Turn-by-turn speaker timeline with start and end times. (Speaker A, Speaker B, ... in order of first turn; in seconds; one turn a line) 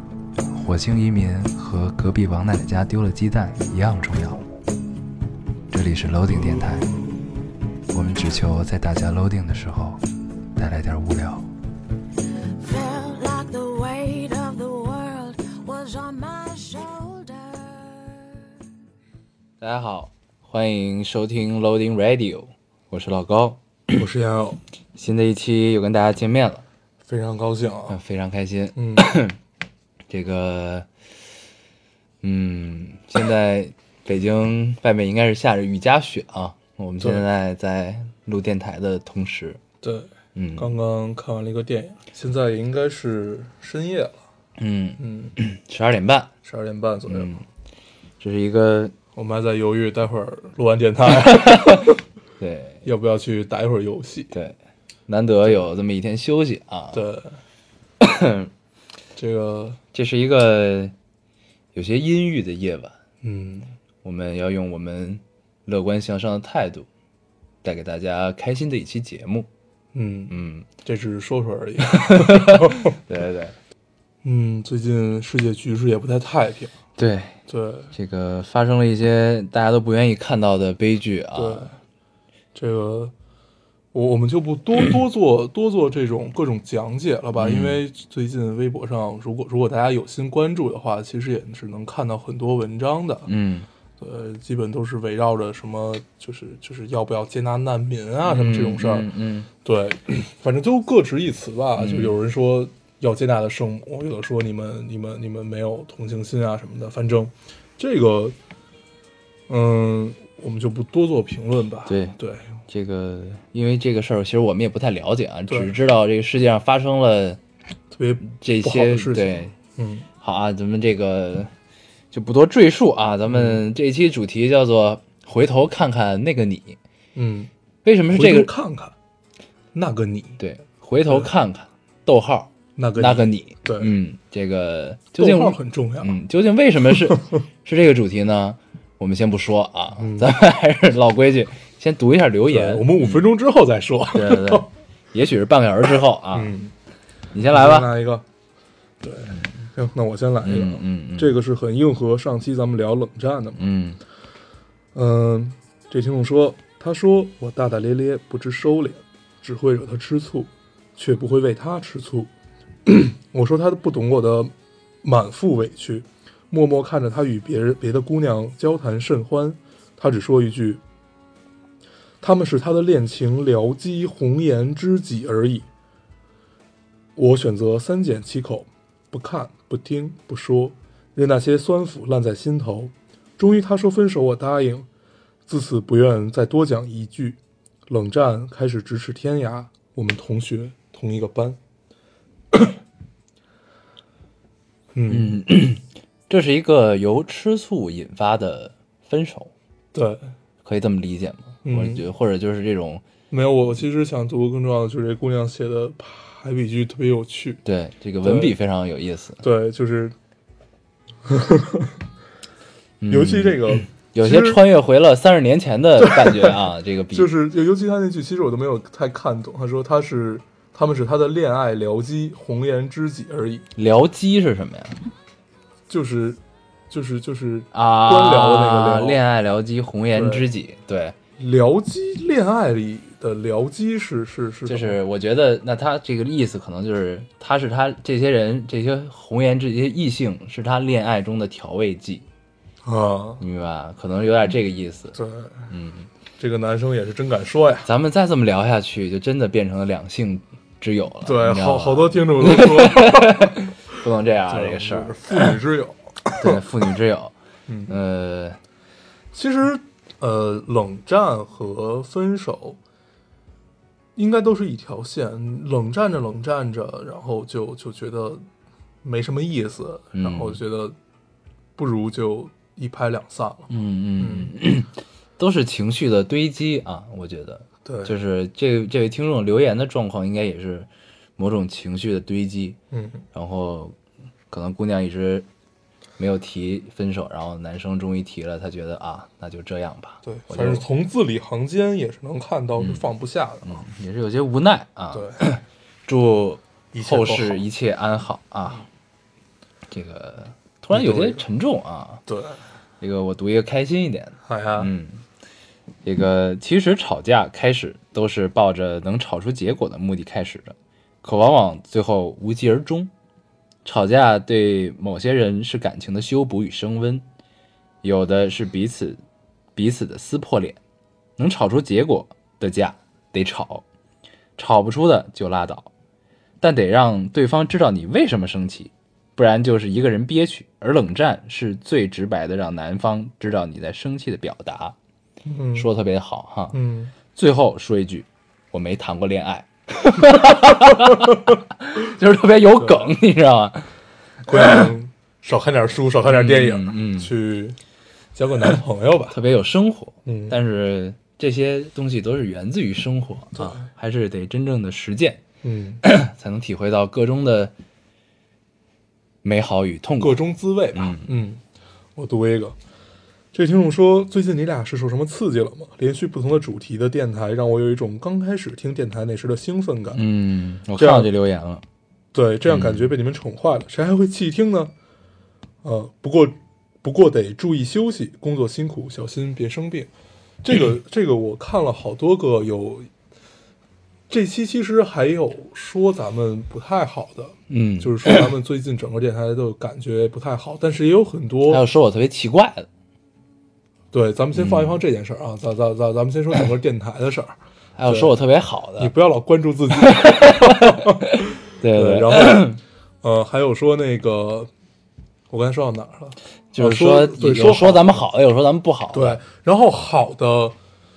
Speaker A: 0.5-4.4
Speaker A: 5.7-7.0
Speaker A: 7.9-10.0
Speaker A: 10.6-11.4
Speaker B: 12.5-18.3
Speaker A: 19.6-24.0
Speaker C: 23.9-24.6
Speaker A: 24.9-26.6
Speaker C: 27.0-28.0
Speaker A: 27.9-29.4
Speaker C: 28.8-29.0
Speaker A: 30.1-30.9
Speaker A: 32.2-39.6
Speaker C: 39.8-44.2
Speaker A: 40.3-40.7
Speaker A: 44.6-46.3
Speaker C: 45.0-45.3
Speaker C: 46.4-47.3
Speaker A: 47.1-47.4
Speaker A: 48.2-48.9
Speaker C: 49.1-52.0
Speaker A: 51.2-52.8
Speaker C: 52.8-54.3
Speaker A: 54.3-54.5
Speaker A: 55.1-57.0
Speaker C: 56.9-57.4
Speaker A: 58.0-58.5
Speaker C: 59.1-59.8
Speaker A: 59.9-60.9
Speaker A: 61.7-63.0
Speaker C: 63.2-63.7
Speaker A: 64.0-66.9
Speaker A: 67.6-69.5
Speaker C: 69.9-72.9
Speaker A: 70.3-70.7
Speaker A: 71.8-73.5
Speaker C: 74.2-76.7
Speaker A: 77.0-77.4
Speaker C: 77.5-77.9
Speaker A: 77.9-81.7
Speaker C: 81.3-81.8
Speaker C: 82.5-83.1
Speaker C: 83.9-93.3
Speaker A: 87.4-87.8
Speaker A: 93.3-93.7
Speaker C: 94.0-99.1
Speaker A: 98.2-99.5
Speaker C: 99.6-108.3
Speaker A: 101.8-102.1
Speaker C: 109.5-112.5
Speaker A: 111.9-117.4
Speaker C: 117.9-120.1
Speaker A: 118.3-119.5
Speaker A: 120.2-121.5
Speaker A: 122.1-126.8
Speaker C: 123.3-123.6
Speaker C: 127.1-127.5
Speaker A: 127.8-128.5
Speaker C: 128.1-128.9
Speaker C: 129.7-130.4
Speaker A: 130.4-143.3
Speaker C: 132.8-133.9
Speaker C: 135.2-136.2
Speaker C: 140.0-140.3
Speaker C: 142.4-144.7
Speaker A: 144.1-146.5
Speaker C: 146.3-146.7
Speaker A: 147.3-147.9
Speaker C: 147.4-148.2
Speaker C: 149.0-153.6
Speaker A: 149.3-149.6
Speaker A: 150.4-151.3
Speaker A: 153.6-154.0
Speaker C: 154.9-162.3
Speaker C: 162.8-170.8
Speaker C: 172.2-175.7
Speaker C: 177.2-184.9
Speaker C: 185.5-191.6
Speaker C: 192.5-192.8
Speaker C: 194.9-195.4
Speaker A: 195.1-199.5
Speaker C: 199.9-200.3
Speaker A: 200.6-203.0
Speaker C: 201.6-202.1
Speaker C: 203.3-207.6
Speaker A: 207.6-209.4
Speaker C: 208.2-208.5
Speaker C: 209.4-210.2
Speaker C: 211.2-211.9
Speaker A: 213.0-217.3
Speaker C: 213.1-214.6
Speaker C: 216.0-216.6
Speaker C: 217.1-223.7
Speaker A: 223.8-225.0
Speaker C: 225.9-229.2
Speaker A: 227.7-231.2
Speaker C: 230.1-230.5
Speaker C: 231.4-235.0
Speaker A: 234.7-242.2
Speaker C: 242.8-243.4
Speaker A: 243.4-245.2
Speaker C: 245.1-245.7
Speaker A: 245.7-246.1
Speaker C: 246.4-247.9
Speaker A: 247.8-255.5
Speaker C: 251.2-253.7
Speaker C: 254.5-256.6
Speaker A: 256.4-257.3
Speaker C: 257.7-258.0
Speaker A: 257.9-258.6
Speaker C: 259.3-262.8
Speaker C: 264.1-268.4
Speaker C: 269.0-271.0
Speaker A: 270.1-270.6
Speaker C: 271.8-274.5
Speaker A: 273.7-282.8
Speaker C: 277.8-278.1
Speaker C: 282.9-283.2
Speaker A: 283.3-283.9
Speaker A: 284.5-285.4
Speaker A: 286.2-290.8
Speaker C: 290.2-293.8
Speaker A: 292.8-293.1
Speaker A: 293.6-298.9
Speaker C: 295.1-295.4
Speaker C: 296.9-297.6
Speaker A: 299.9-302.2
Speaker C: 300.9-301.4
Speaker C: 302.3-302.6
Speaker A: 303.0-305.2
Speaker C: 304.4-304.9
Speaker A: 306.0-313.1
Speaker A: 313.8-317.2
Speaker A: 318.0-319.2
Speaker A: 319.7-320.8
Speaker A: 321.4-323.8
Speaker A: 324.6-325.9
Speaker A: 326.6-334.9
Speaker C: 335.4-335.9
Speaker A: 335.7-336.8
Speaker C: 336.7-337.1
Speaker A: 337.3-343.9
Speaker C: 342.8-343.1
Speaker C: 344.5-347.8
Speaker A: 344.5-344.9
Speaker A: 346.3-347.3
Speaker C: 348.3-349.4
Speaker A: 349.3-355.4
Speaker C: 350.2-350.6
Speaker C: 353.6-353.9
Speaker C: 355.6-356.0
Speaker A: 356.0-357.7
Speaker A: 359.4-360.4
Speaker C: 360.2-361.6
Speaker A: 360.9-361.3
Speaker C: 362.1-362.8
Speaker C: 363.5-370.2
Speaker A: 370.1-371.8
Speaker C: 371.0-371.3
Speaker C: 372.3-374.9
Speaker A: 372.7-373.1
Speaker C: 375.8-380.1
Speaker C: 380.6-383.1
Speaker C: 384.3-391.8
Speaker A: 387.7-388.5
Speaker A: 391.7-392.9
Speaker C: 394.1-397.6
Speaker A: 394.5-395.0
Speaker A: 398.0-399.1
Speaker C: 398.1-398.3
Speaker C: 399.0-404.7
Speaker A: 400.0-402.8
Speaker C: 405.5-408.2
Speaker A: 406.7-409.4
Speaker C: 409.1-410.8